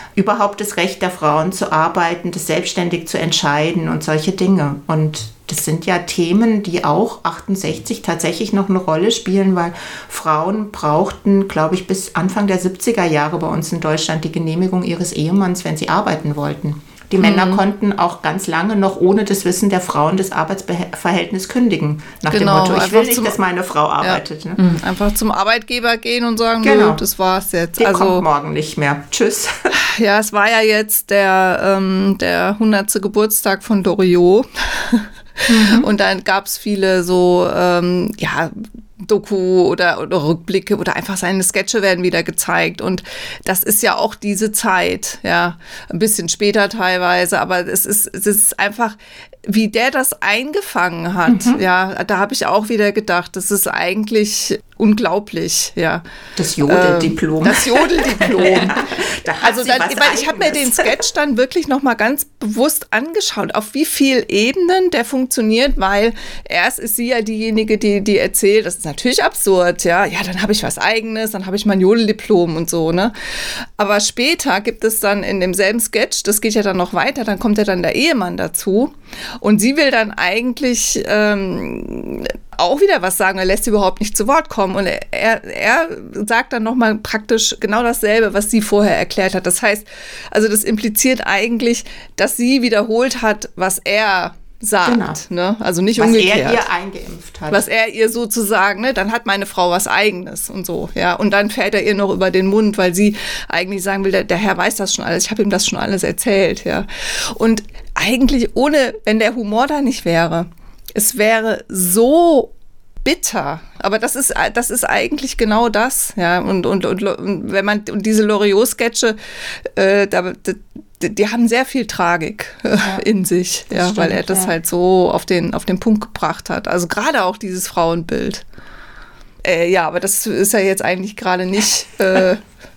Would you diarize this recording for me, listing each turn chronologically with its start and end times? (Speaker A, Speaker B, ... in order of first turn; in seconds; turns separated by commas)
Speaker A: 0.2-24.6, Speaker B: 17.2-17.6, Speaker B: 22.3-23.4, Speaker B: 24.7-28.2, Speaker A: 26.6-27.0, Speaker A: 27.8-29.5, Speaker B: 29.7-56.0, Speaker A: 35.5-35.9, Speaker A: 51.3-51.6, Speaker A: 56.4-60.9, Speaker B: 56.6-58.7, Speaker B: 59.4-96.7, Speaker A: 94.8-95.2, Speaker A: 96.0-97.6, Speaker B: 97.5-112.5, Speaker B: 113.0-128.4, Speaker A: 122.8-123.0, Speaker A: 123.7-124.5, Speaker B: 129.4-132.4